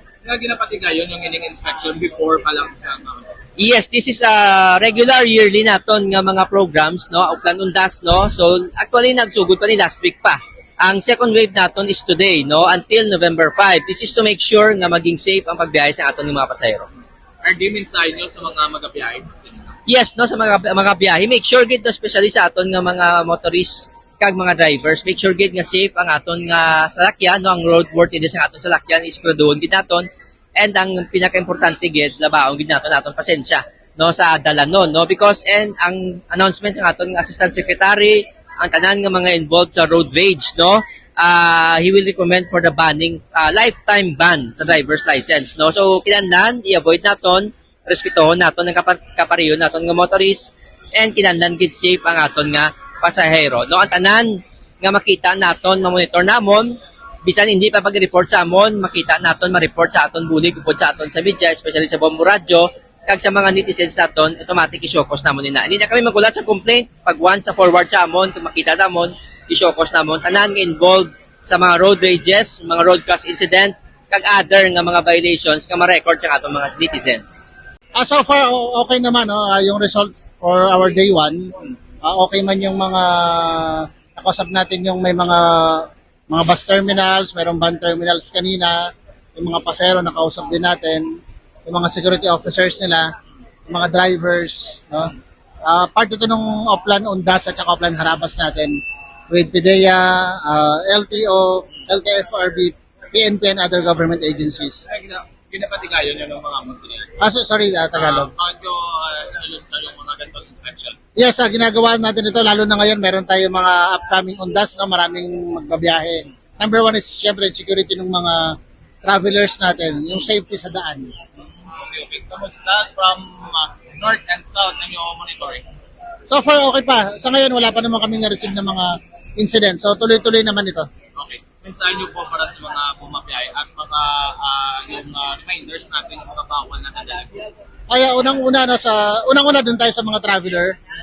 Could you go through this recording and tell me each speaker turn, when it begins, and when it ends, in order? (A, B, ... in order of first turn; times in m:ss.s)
0:00.2-0:03.4 A
0:03.6-0:16.9 B
0:17.4-0:19.7 A
0:19.8-0:30.0 B
0:30.6-1:17.5 B
1:18.0-1:21.4 C
1:22.0-1:28.8 C
1:29.4-1:31.0 C
1:31.7-1:33.1 C
1:33.7-1:35.1 C
1:35.6-1:38.8 C
1:39.3-1:44.8 C
1:44.9-1:47.1 A
1:47.2-1:48.3 C
1:47.9-1:51.0 A
1:51.2-2:01.1 C
2:01.4-2:05.6 A
2:06.3-2:10.8 C
2:11.2-2:17.4 A
2:17.9-2:20.7 C